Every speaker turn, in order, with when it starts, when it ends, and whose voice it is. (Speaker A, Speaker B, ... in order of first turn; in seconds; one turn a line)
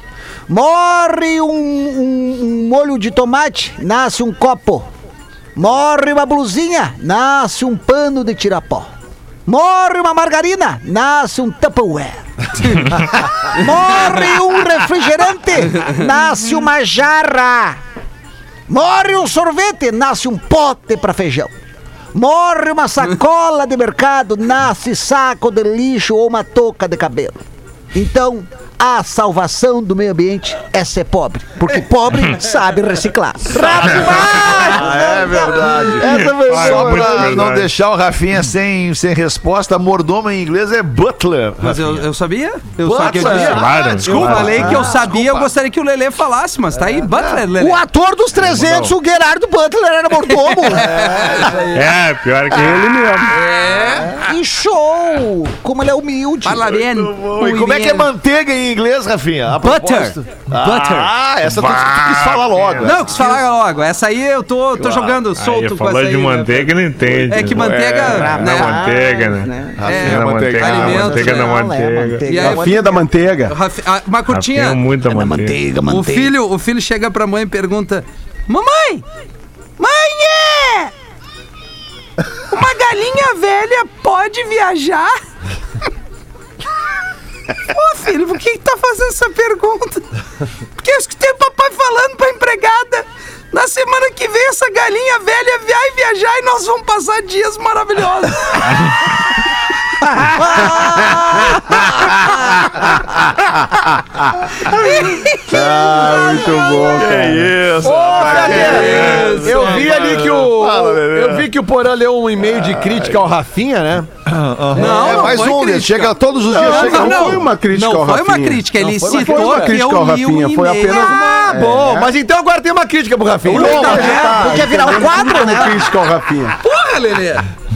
Speaker A: 0.5-4.9
Speaker A: 5.5-8.9
Speaker A: 9.4-17.8
Speaker B: 12.6-12.9
Speaker A: 18.7-21.5
Speaker A: 22.1-27.4
Speaker A: 27.9-37.2
Speaker C: 33.5-42.0
Speaker D: 33.8-34.4
Speaker D: 36.0-37.7
Speaker B: 41.6-47.8
Speaker C: 42.8-45.5
Speaker E: 43.0-43.5
Speaker D: 43.4-44.9
Speaker A: 47.6-51.3
Speaker D: 48.4-48.9
Speaker B: 50.7-51.5
Speaker D: 51.5-53.2
Speaker F: 52.5-53.4
Speaker B: 53.3-54.2
Speaker A: 54.0-56.8
Speaker B: 56.4-58.1
Speaker C: 56.6-63.4
Speaker B: 59.6-61.1
Speaker D: 61.4-63.4
Speaker B: 62.8-68.9
Speaker D: 64.8-72.2
Speaker C: 67.0-68.4
Speaker A: 68.1-69.8
Speaker C: 69.8-71.2
Speaker B: 69.8-71.5
Speaker A: 70.8-73.0
Speaker B: 72.2-72.7
Speaker F: 72.3-73.5
Speaker B: 73.5-74.8
Speaker D: 74.3-75.6
Speaker A: 75.1-76.3
Speaker B: 75.8-79.0
Speaker B: 79.8-80.9
Speaker B: 82.5-85.2
Speaker B: 87.7-90.1
Speaker B: 90.8-98.9
Speaker B: 100.4-101.5
Speaker B: 104.7-105.8
Speaker F: 105.2-107.5
Speaker C: 106.9-111.5
Speaker E: 107.8-114.1
Speaker B: 108.1-110.3
Speaker C: 112.4-113.2
Speaker C: 114.2-117.5
Speaker B: 114.7-121.3
Speaker E: 114.8-115.2
Speaker F: 116.5-122.1
Speaker E: 118.8-119.8
Speaker E: 120.9-124.8
Speaker F: 123.5-126.5
Speaker B: 123.5-124.5
Speaker A: 123.8-125.9
Speaker B: 126.6-127.5